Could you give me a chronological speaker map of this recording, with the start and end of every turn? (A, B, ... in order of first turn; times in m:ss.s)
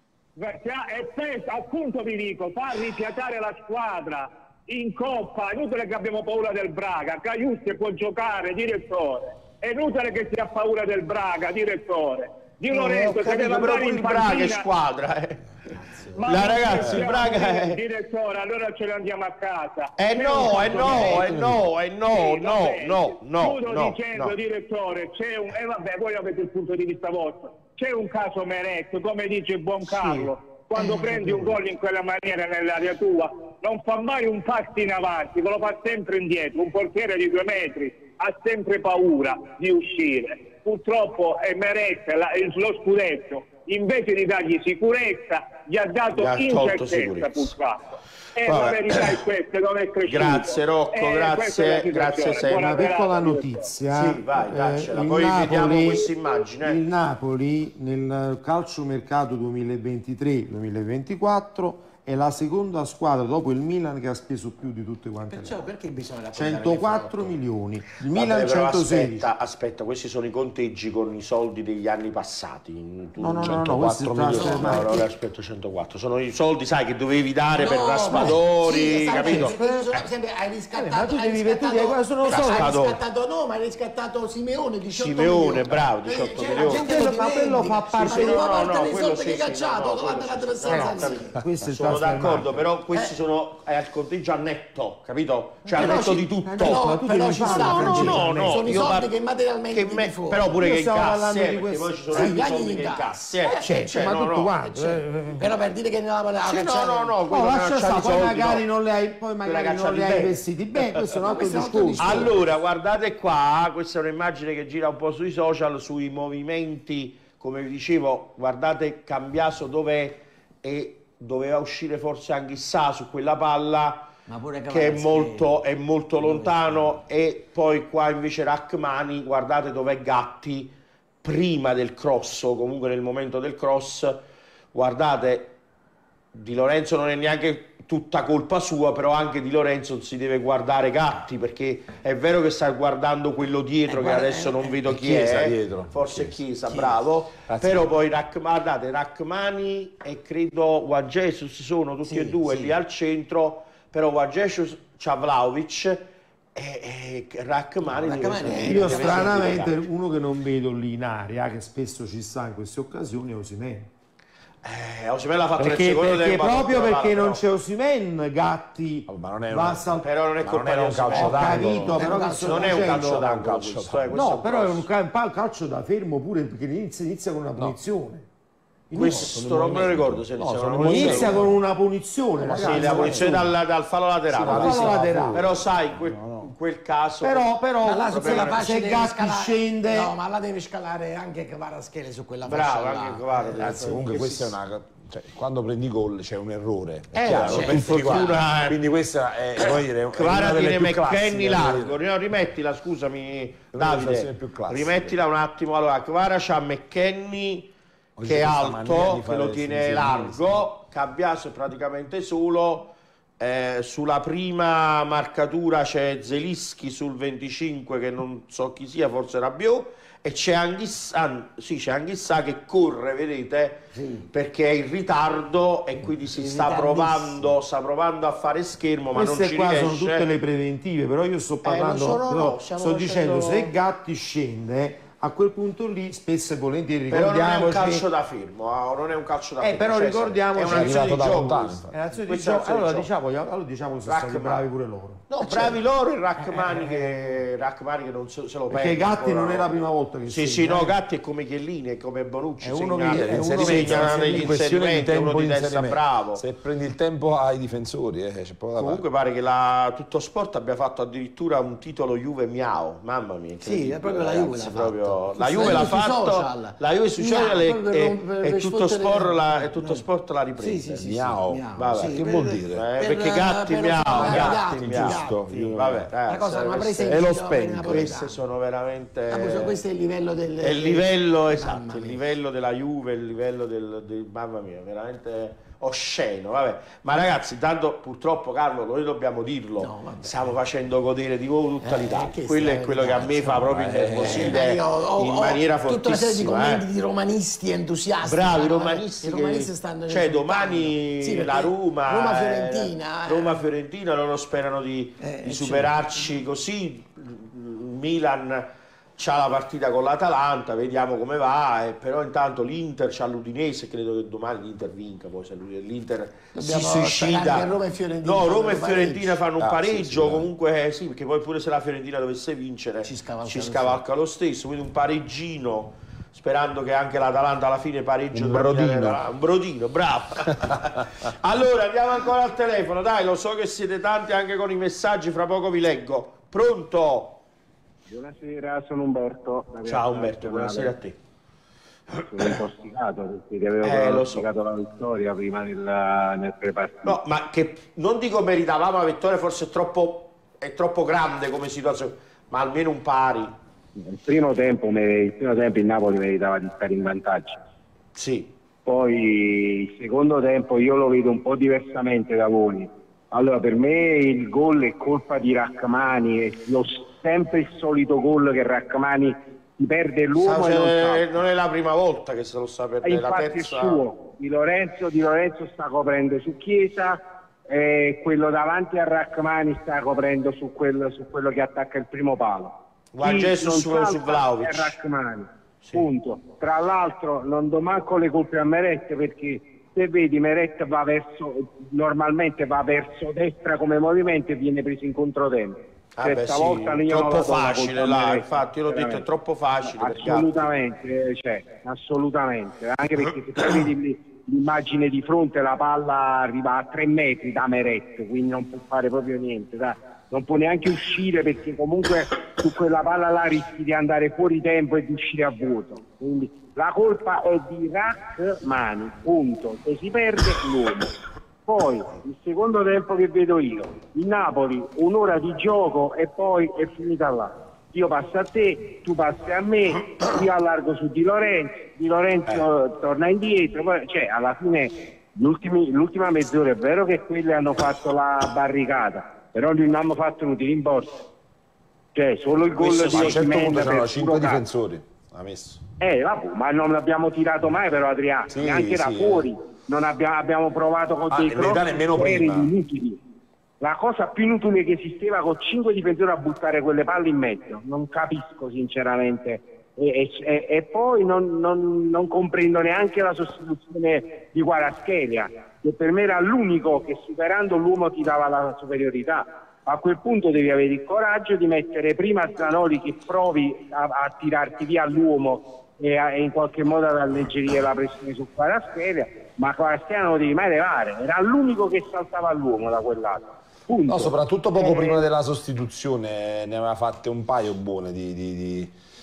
0:00.4-0:14.7 A
0:12.7-0:15.5 B
0:15.7-0:16.2 C
0:16.1-0:53.7 A
0:16.2-0:17.8 B
0:20.0-0:24.4 B
0:29.8-0:30.3 B
0:46.1-0:47.5 B
0:48.4-0:49.2 B
0:50.0-0:52.9 B
0:52.5-0:56.1 D
0:53.9-0:56.8 B
0:56.6-1:05.6 D
1:05.3-1:07.4 C
1:06.3-1:09.2 D
1:08.1-1:19.6 B
1:13.2-1:15.1 D
1:13.4-1:14.7 E
1:14.7-1:15.0 C
1:17.5-1:31.4 C
1:19.0-1:19.9 D
1:20.7-1:22.8 D
1:22.3-1:23.0 B
1:24.9-1:27.0 B
1:26.5-1:28.8 D
1:28.0-1:36.8 B
1:30.6-1:32.6 D
1:35.7-1:38.7 D
1:35.8-1:40.5 C
1:37.4-1:39.1 B
1:39.7-1:44.7 B
1:40.6-1:42.4 D
1:42.1-1:43.9 C
1:43.5-1:45.5 D
1:45.4-1:47.2 C
1:46.4-1:48.6 B
1:47.3-1:52.3 D
1:49.4-1:51.0 B
1:51.2-1:52.4 C
1:52.0-2:04.1 B
2:04.3-2:07.0 C
2:04.7-2:14.2 B
2:14.7-2:15.5 B
2:16.3-2:39.8 B
2:23.9-2:24.9 C
2:24.9-2:26.4 E
2:27.5-2:27.9 E
2:32.0-2:32.7 C
2:37.9-2:39.7 C
2:38.5-2:43.9 D
2:44.6-2:47.4 B
2:45.6-2:50.1 D
2:49.1-2:54.2 E
2:50.0-2:54.8 B
2:51.1-2:53.2 D
2:51.9-2:52.7 C
2:54.1-2:58.2 D
2:58.9-3:01.4 B
2:58.9-3:01.6 E
3:00.8-3:03.5 D
3:02.4-3:03.5 E
3:02.6-3:07.5 B
3:04.3-3:06.5 E
3:04.3-3:05.4 D
3:07.2-3:10.2 D
3:07.8-3:13.8 C
3:08.0-3:08.6 B
3:12.4-3:14.6 B
3:13.6-3:22.0 E
3:17.1-3:18.8 B
3:17.2-3:18.1 C
3:20.1-3:27.7 B
3:23.7-3:25.2 E
3:28.2-3:30.6 E
3:28.2-3:50.3 B
3:43.9-3:44.3 C
3:46.2-3:47.5 C
3:49.1-3:58.0 D
3:51.6-3:53.7 B
3:57.1-4:03.1 B
3:59.6-4:05.8 D
4:00.6-4:01.9 E
4:04.0-4:04.6 B
4:05.3-4:09.7 B
4:08.7-4:11.0 D
4:10.3-4:16.4 B
4:12.6-4:14.5 D
4:13.1-4:19.0 E
4:18.7-4:39.8 B
4:23.6-4:30.0 C
4:30.6-4:35.5 C
4:30.9-4:32.9 E
4:34.1-4:36.1 E
4:36.3-4:38.4 C
4:37.7-4:38.1 E
4:39.3-4:42.2 C
4:40.6-4:56.8 B
4:49.8-4:50.5 C
4:51.8-5:03.6 C
4:53.6-4:54.6 E
4:58.2-5:37.4 B
5:05.2-5:06.0 C
5:16.5-5:19.4 C
5:19.6-5:20.5 E
5:23.0-5:24.0 C
5:28.3-5:29.2 E
5:38.1-5:40.9 F
5:39.8-5:41.2 B
5:42.2-5:42.5 B
5:42.2-5:47.2 F
5:43.8-5:44.5 B
5:47.0-5:53.6 B
5:54.0-5:57.6 F
5:58.2-5:58.5 B
5:58.8-6:11.3 F
6:10.3-6:14.0 B
6:13.0-6:39.2 F
6:23.1-6:24.9 B
6:36.2-6:40.5 B
6:39.8-7:01.1 F
7:01.6-7:21.2 F
7:22.1-7:24.6 F
7:22.7-7:23.7 B
7:23.0-7:25.8 E
7:26.0-7:33.2 F
7:28.5-7:29.5 E
7:31.3-7:32.7 E
7:33.8-8:05.2 F
8:04.1-8:08.9 E